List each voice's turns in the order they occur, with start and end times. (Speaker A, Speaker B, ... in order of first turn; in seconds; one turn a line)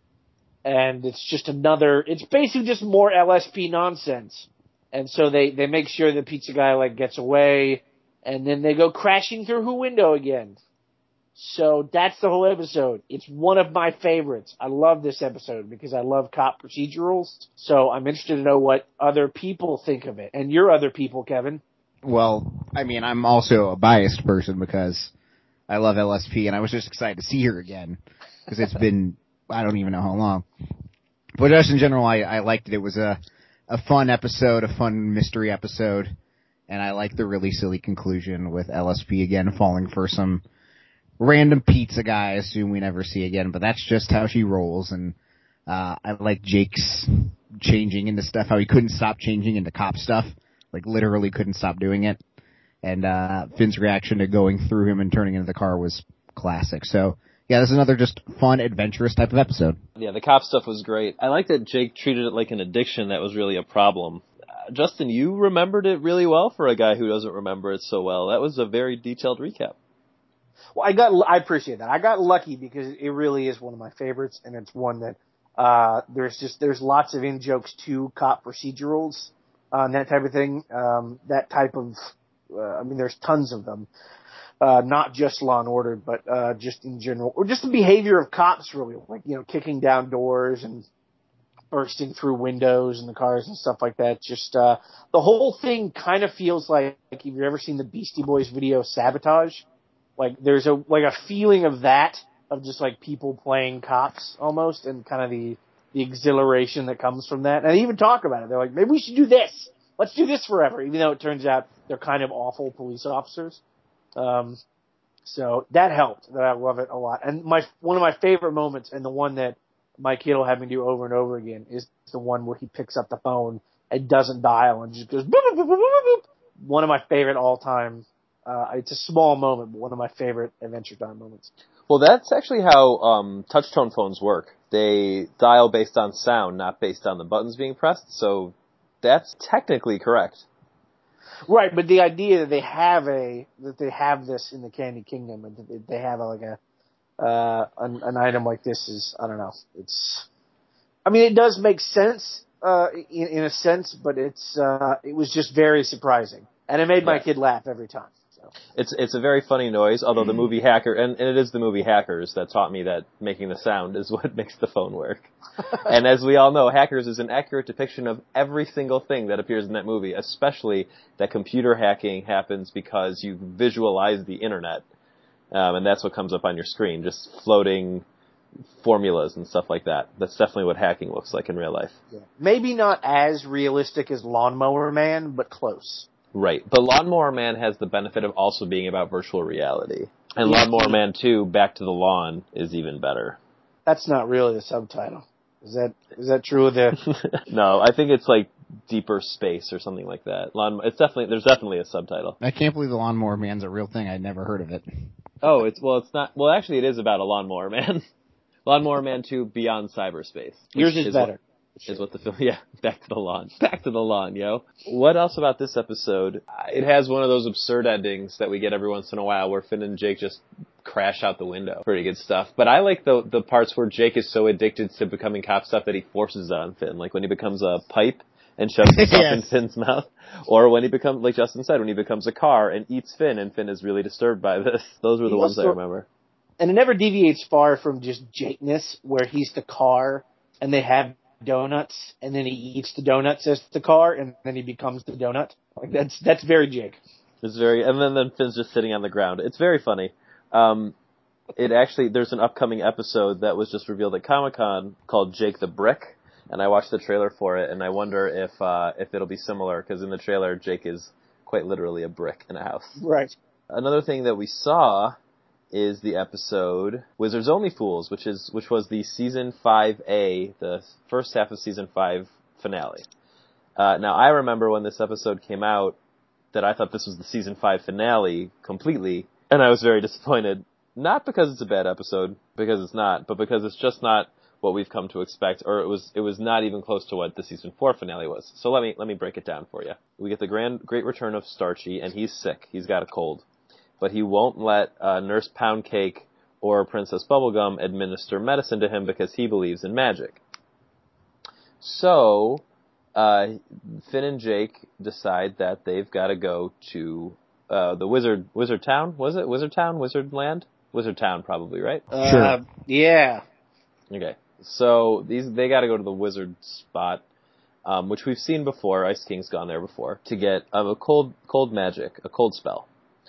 Speaker A: 0.6-10.6
Speaker A: 11.3-21.6
Speaker B: 22.0-25.1
Speaker B: 25.7-30.4
Speaker B: 31.4-33.2
Speaker B: 33.7-36.1
Speaker B: 36.7-40.4
Speaker B: 41.2-45.1
Speaker B: 45.7-52.2
Speaker B: 52.8-59.8
Speaker C: 60.0-69.8
Speaker A: 70.8-83.9
Speaker A: 84.6-90.8
Speaker A: 91.7-99.6
Speaker A: 100.2-113.6
Speaker A: 114.2-114.6
Speaker A: 115.2-131.5
Speaker C: 131.9-140.4
Speaker A: 141.5-146.6
Speaker A: 147.2-150.3
Speaker A: 151.1-158.5
Speaker C: 158.7-165.3
Speaker C: 165.8-174.8
Speaker C: 175.5-178.0
Speaker C: 178.8-181.9
Speaker A: 182.1-186.1
Speaker C: 186.3-193.4
Speaker A: 190.4-191.0
Speaker A: 193.9-197.0
Speaker C: 197.0-202.4
Speaker B: 202.4-204.8
Speaker C: 205.4-208.0
Speaker C: 208.6-211.3
Speaker A: 210.7-212.0
Speaker C: 211.9-236.1
Speaker B: 228.8-229.5
Speaker A: 235.3-235.8
Speaker A: 236.6-247.0
Speaker C: 247.4-250.9
Speaker C: 251.6-263.0
Speaker A: 263.0-263.3
Speaker C: 263.7-265.1
Speaker C: 265.7-273.0
Speaker C: 273.8-275.9
Speaker C: 276.5-293.4
Speaker C: 294.0-300.4
Speaker C: 301.8-302.6
Speaker C: 303.1-312.1
Speaker A: 312.1-313.4
Speaker B: 312.2-312.6
Speaker C: 314.1-317.2
Speaker C: 317.8-322.9